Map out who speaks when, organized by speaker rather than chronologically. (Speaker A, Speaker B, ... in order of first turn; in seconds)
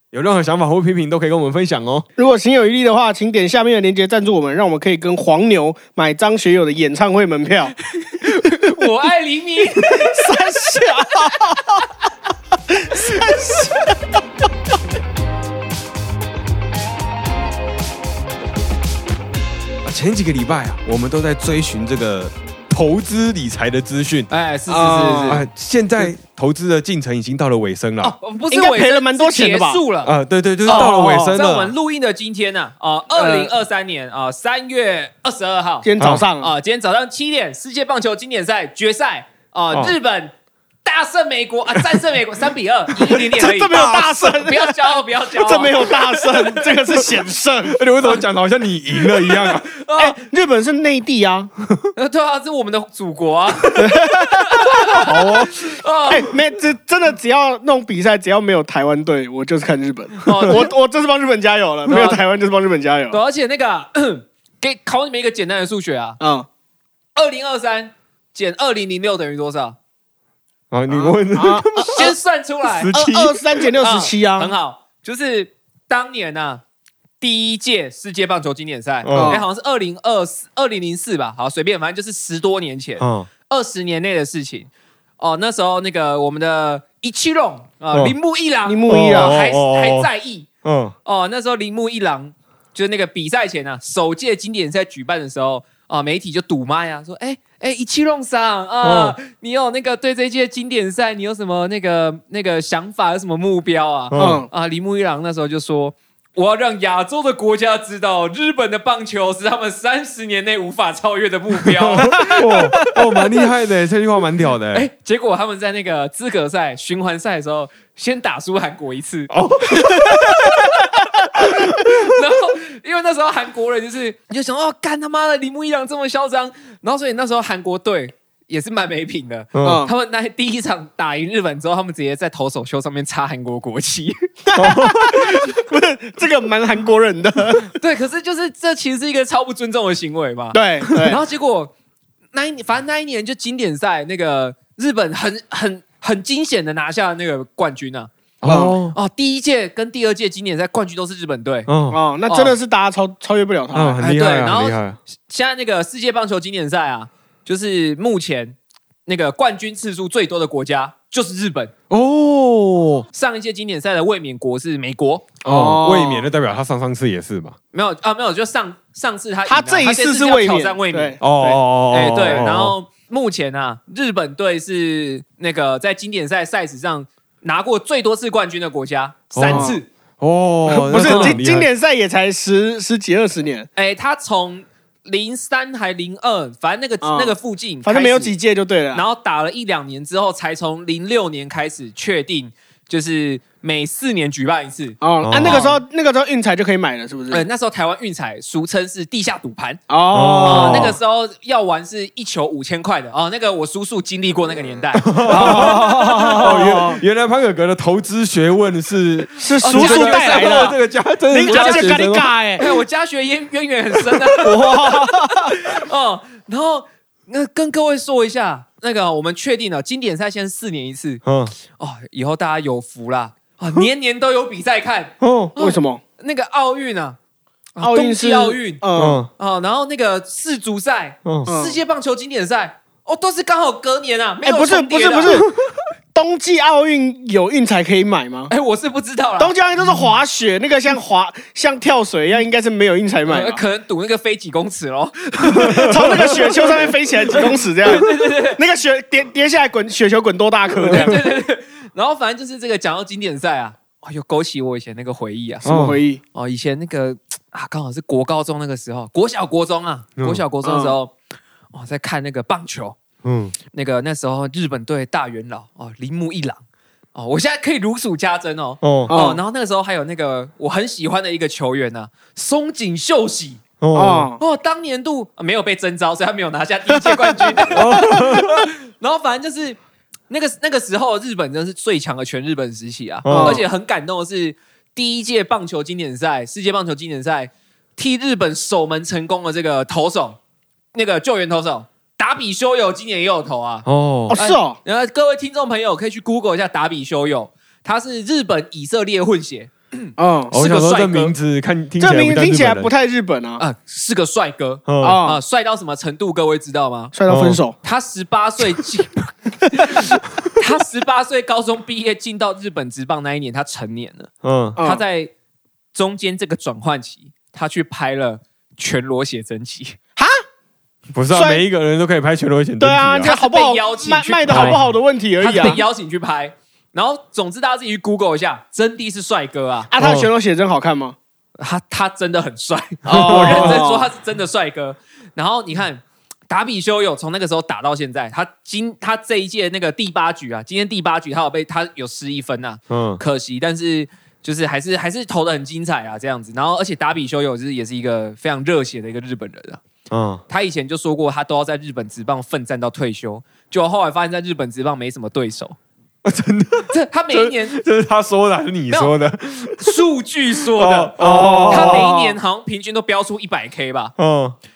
Speaker A: 0.1-2.0, 19.8-24.3, 25.2-28.1, 30.0-31.7, 36.0-36.3, 43.7-44.0, 47.7-49.7, 54.9-55.5, 70.7-72.1, 72.7-73.7, 79.0-79.4, 83.0-83.3, 88.9-90.1, 90.6-91.0, 98.8-99.2, 104.1-104.4, 111.8-114.9, 119.3-120.8, 121.4-121.9, 129.5-129.8, 134.6-135.5, 148.4-148.9, 151.7-152.0, 153.7-155.0, 161.9-163.1, 165.4-167.6, 171.2-172.8, 179.3-181.7, 195.2-195.6, 200.1-201.0, 204.9-212.3, 221.2-221.5, 225.2-225.5, 228.9-229.3, 245.5-246.5, 250.8-251.2, 255.7-256.0, 260.2-260.4, 263.2-263.6, 268.8-269.1, 273.8-274.3, 277.7-278.6, 283.2-283.6, 293.9-294.4, 300.5-302.9, 304.9-305.2, 307.3-307.6, 314.4-314.8, 321.1-323.3, 324.5-324.8, 330.0-330.3, 333.1-333.8, 342.9-343.2, 350.1-350.4, 356.2-360.0, 360.7-362.1, 364.2-364.6
Speaker B: 2.2-7.8, 9.9-11.8, 12.7-14.0, 24.7-25.4, 28.5-29.8, 30.7-31.4, 33.1-33.5, 35.8-36.5, 43.2-48.2, 50.0-51.5, 53.7-55.5, 56.1-63.2, 66.2-66.5, 70.9-72.1, 72.9-74.5, 79.1-79.4, 88.7-89.4, 104.1-104.5, 112.0-113.0, 120.4-120.8, 129.6-129.9, 134.5-137.7, 140.5-141.2, 148.5-148.8, 151.9-154.0, 165.4-166.3, 169.4-171.6, 179.5-179.8, 180.7-183.7, 187.0-189.0, 195.0-197.4, 199.9-200.9, 205.2-207.0, 209.4-210.8, 211.3-212.8, 214.4-215.6, 225.6-226.0, 227.8-229.2, 231.4-231.8, 234.4-235.5, 236.1-238.5, 239.4-243.6, 245.6-251.2, 255.6-256.2, 260.6-260.9, 269.1-269.4, 273.9-274.4, 277.1-277.8, 283.3-283.6, 294.3-294.8, 300.2-300.5, 302.0-303.6, 305.0-305.4, 307.1-307.8, 314.8-315.0, 321.3-321.6, 322.8-325.8, 329.9-331.2, 333.1-334.1, 361.2-362.4
Speaker C: 8.0-10.3, 24.3-25.4, 28.0-30.1, 30.7-40.3, 40.8-46.7, 49.0-50.2, 52.0-56.3, 60.2-60.7, 63.1-66.2, 67.2-69.8, 71.8-72.9, 73.8-76.6, 77.2-90.5, 91.0-112.9, 114.7-119.9, 121.1-134.4, 137.6-141.7, 142.3-148.1, 148.9-151.7, 152.3-152.5, 154.0-161.7, 163.1-165.3, 167.7-171.2, 171.9-179.9, 180.9-181.4, 183.8-188.3, 188.9-195.8, 197.3-199.8, 200.4-206.4, 209.6-210.8, 211.4-221.2, 221.8-227.2, 227.8-228.8, 229.4-235.5, 238.5-239.5, 243.3-248.6, 250.8-255.7, 256.3-261.1, 261.7-263.0, 263.7-266.6, 267.1-273.6, 274.4-279.8, 280.3-290.4, 290.9-301.3, 303.6-307.1, 307.8-315.3, 315.9-320.0, 323.2-324.8, 325.4-329.9, 331.6-349.8, 350.5-355.8, 356.9-357.8, 359.8-361.2, 361.7-364.1